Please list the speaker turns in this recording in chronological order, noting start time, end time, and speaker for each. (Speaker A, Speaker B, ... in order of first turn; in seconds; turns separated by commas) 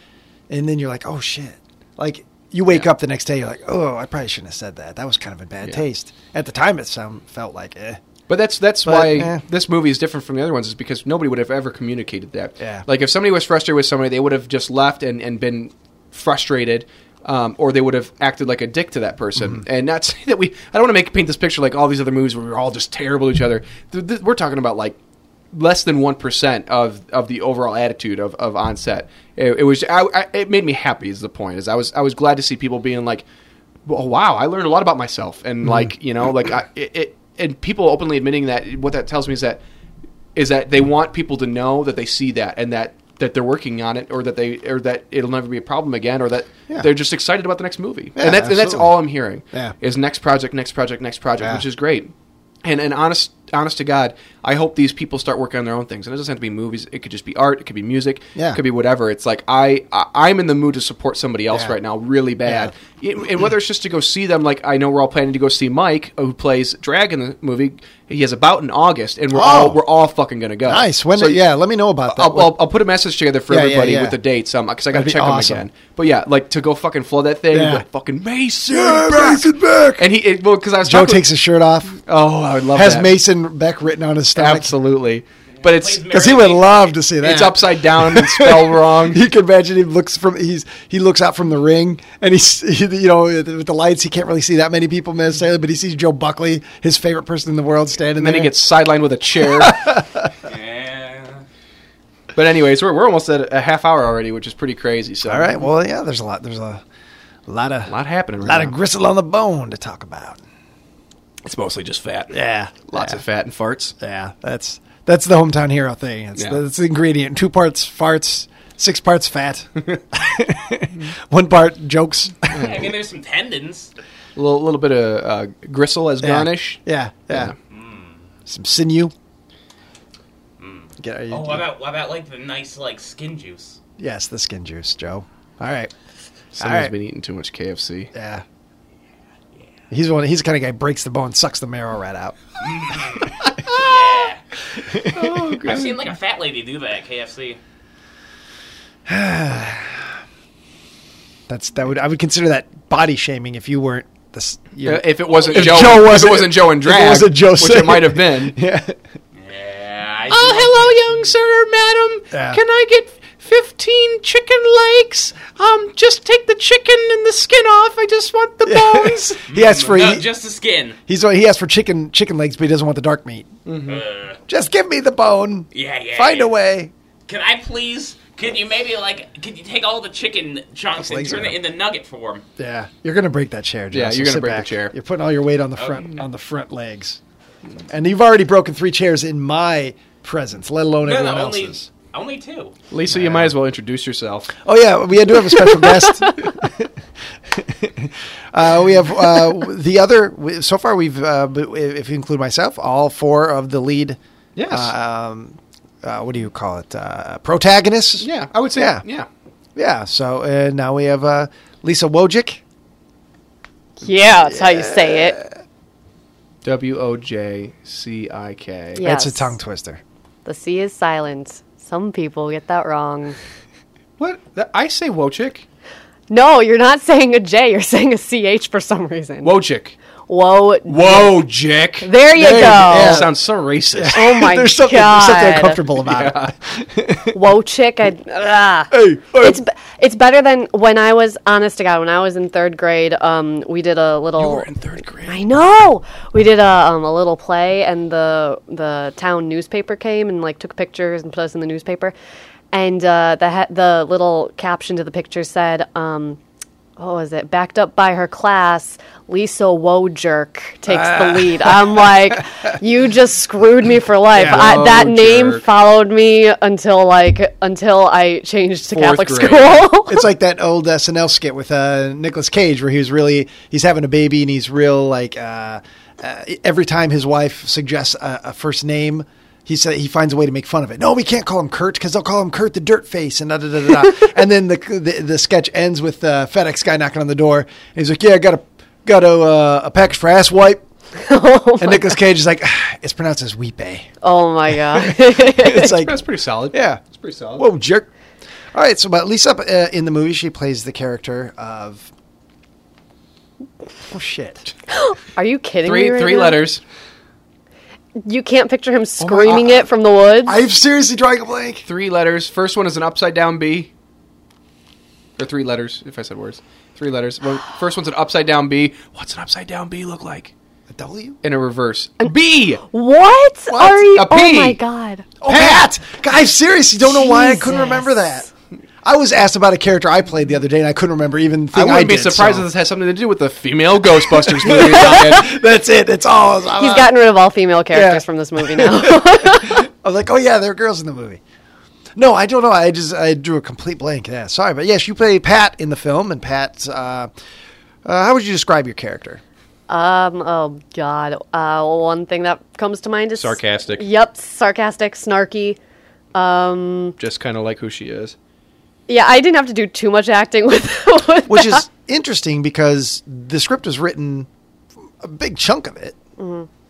Speaker A: 0.5-8.0, Speaker B: 8.3-25.0, Speaker A: 8.8-9.4, Speaker A: 12.6-12.8, Speaker B: 25.5-33.2, Speaker B: 33.9-39.6, Speaker B: 40.3-52.1, Speaker A: 48.1-49.7, Speaker A: 51.4-51.6, Speaker B: 52.6-71.4, Speaker A: 58.3-58.6, Speaker A: 61.5-61.8, Speaker A: 62.4-62.7, Speaker A: 69.3-69.8, Speaker A: 70.7-72.6, Speaker B: 72.1-81.2, Speaker A: 73.5-74.2, Speaker A: 74.9-75.7, Speaker A: 77.5-77.8, Speaker A: 78.7-80.0, Speaker A: 80.8-82.0, Speaker B: 82.0-83.1, Speaker A: 82.7-84.7, Speaker B: 84.3-86.2, Speaker C: 85.6-86.9, Speaker A: 86.1-98.5, Speaker B: 87.2-89.2, Speaker B: 98.2-100.0, Speaker A: 99.4-100.3, Speaker C: 100.4-101.4, Speaker B: 102.3-105.7, Speaker A: 105.2-106.8, Speaker A: 107.5-110.4, Speaker B: 107.9-108.7, Speaker B: 111.4-112.3, Speaker A: 112.3-113.2, Speaker B: 112.9-113.9, Speaker A: 114.0-122.9, Speaker B: 122.5-122.9, Speaker C: 122.6-123.9, Speaker B: 124.3-126.8, Speaker A: 126.2-127.5, Speaker C: 127.7-128.2, Speaker A: 128.4-129.1, Speaker C: 130.6-133.8, Speaker A: 131.0-131.7, Speaker A: 134.0-135.9, Speaker B: 136.5-138.1, Speaker A: 136.6-136.9, Speaker A: 138.1-138.4, Speaker A: 139.9-142.3, Speaker C: 142.6-144.4, Speaker B: 143.4-143.8, Speaker A: 144.8-145.6, Speaker B: 145.1-146.1, Speaker C: 145.6-147.6, Speaker A: 149.1-150.1, Speaker A: 151.5-159.0, Speaker B: 154.8-158.6, Speaker C: 155.4-156.0, Speaker C: 159.4-161.3, Speaker B: 160.3-169.4, Speaker A: 162.3-162.6, Speaker A: 168.6-170.3, Speaker C: 169.5-171.0, Speaker A: 171.1-173.5, Speaker B: 173.7-174.0, Speaker C: 173.9-174.4, Speaker A: 174.5-176.9, Speaker C: 175.7-176.5, Speaker C: 177.3-182.4, Speaker A: 180.9-181.6, Speaker A: 182.6-187.2, Speaker B: 183.9-184.9, Speaker C: 185.8-186.1, Speaker A: 187.9-191.9, Speaker C: 191.0-192.7, Speaker B: 192.9-194.5, Speaker A: 193.1-193.5, Speaker A: 194.6-196.9, Speaker A: 197.5-209.0, Speaker B: 204.6-204.9, Speaker B: 208.2-209.3, Speaker A: 209.8-212.6, Speaker D: 214.0-215.4, Speaker A: 214.4-215.5, Speaker B: 216.6-219.0, Speaker D: 219.0-219.5, Speaker A: 219.0-220.0, Speaker D: 220.4-223.4, Speaker B: 224.2-225.7, Speaker D: 226.3-229.6, Speaker B: 229.4-229.9, Speaker D: 230.3-231.4, Speaker B: 230.9-234.3, Speaker D: 232.0-233.3, Speaker A: 232.6-233.3, Speaker A: 233.9-237.4, Speaker D: 234.1-235.8, Speaker B: 236.0-236.5, Speaker D: 237.3-244.7, Speaker B: 238.9-239.4, Speaker B: 244.3-245.4, Speaker D: 245.2-252.1, Speaker D: 252.7-256.4, Speaker D: 257.0-270.3, Speaker A: 260.9-262.4, Speaker A: 264.3-264.9, Speaker B: 264.4-265.6, Speaker B: 268.9-269.9, Speaker A: 270.1-290.8, Speaker D: 291.2-292.2, Speaker A: 291.8-294.1, Speaker D: 294.2-296.1, Speaker A: 294.9-296.2, Speaker B: 295.8-297.6, Speaker A: 296.7-297.0, Speaker A: 297.6-298.1, Speaker A: 298.7-302.1, Speaker A: 304.0-304.7, Speaker D: 304.9-306.6, Speaker B: 305.8-306.8, Speaker D: 308.2-310.6, Speaker A: 309.2-309.7, Speaker A: 310.4-311.8, Speaker B: 311.9-313.9, Speaker B: 315.4-320.5, Speaker A: 320.9-321.4, Speaker B: 321.4-322.8, Speaker D: 322.2-325.3, Speaker A: 323.7-324.0, Speaker B: 324.1-324.8, Speaker A: 325.4-328.5, Speaker B: 325.4-325.8, Speaker D: 327.1-328.5, Speaker A: 329.0-332.7, Speaker B: 331.7-335.5, Speaker A: 334.2-337.1, Speaker D: 336.8-339.8, Speaker A: 337.9-341.4, Speaker A: 342.1-347.3, Speaker A: 348.0-349.4, Speaker D: 349.9-355.8, Speaker B: 353.4-354.0, Speaker D: 356.3-357.1, Speaker B: 357.2-358.3, Speaker D: 359.1-361.8, Speaker A: 361.5-364.5, Speaker A: 365.2-366.2, Speaker D: 366.4-366.7